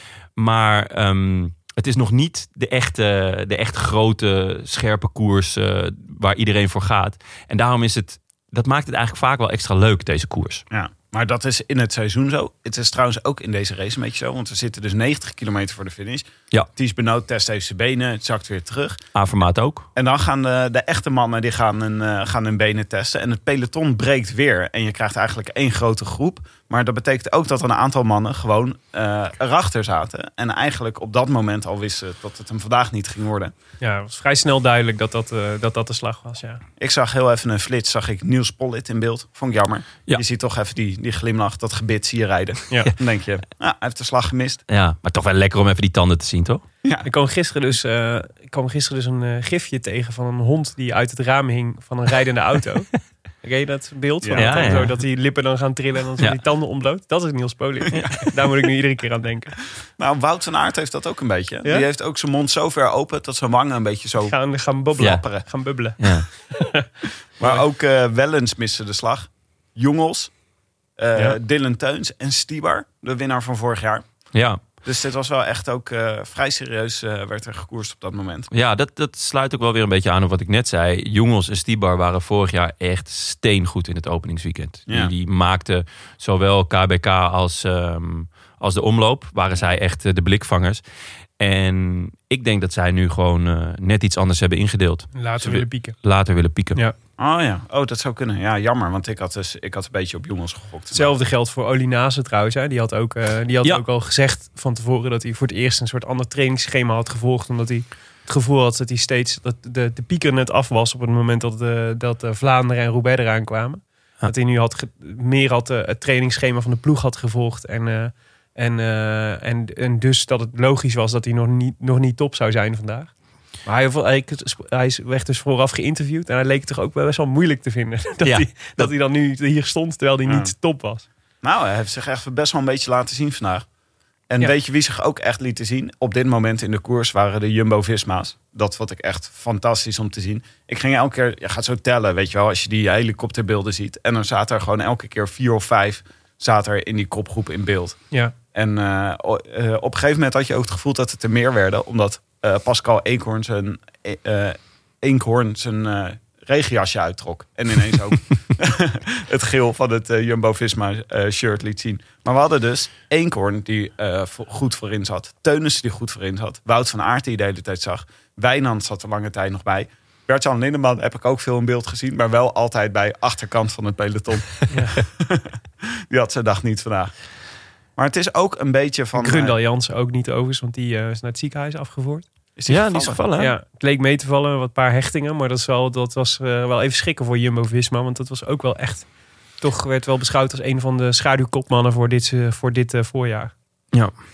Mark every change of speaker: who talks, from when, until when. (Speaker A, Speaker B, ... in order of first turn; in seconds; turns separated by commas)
Speaker A: 0.4-10.6, Speaker B: 10.7-19.0, Speaker A: 19.1-19.9, Speaker B: 19.9-33.5, Speaker C: 33.8-36.6, Speaker B: 36.8-44.6, Speaker A: 44.7-46.6, Speaker C: 47.0-52.9, Speaker C: 53.4-59.5, Speaker B: 54.2-54.9, Speaker A: 54.4-54.9, Speaker A: 57.9-58.2, Speaker B: 60.0-64.4, Speaker C: 64.2-66.9, Speaker B: 65.0-65.5, Speaker A: 66.0-66.3, Speaker B: 67.4-70.3, Speaker B: 71.0-74.1, Speaker A: 74.3-74.6, Speaker B: 74.8-78.5, Speaker A: 78.5-90.8, Speaker A: 91.4-96.8, Speaker C: 95.2-96.0, Speaker B: 97.2-101.1, Speaker C: 100.9-123.1, Speaker C: 123.7-131.1, Speaker A: 128.2-128.9, Speaker B: 130.3-130.5, Speaker B: 131.4-133.7, Speaker B: 134.3-148.0, Speaker B: 148.5-177.1, Speaker C: 174.7-175.0, Speaker B: 178.0-179.6, Speaker C: 179.2-182.2, Speaker B: 182.6-183.2, Speaker A: 182.7-183.5, Speaker C: 183.4-189.1, Speaker C: 189.6-193.5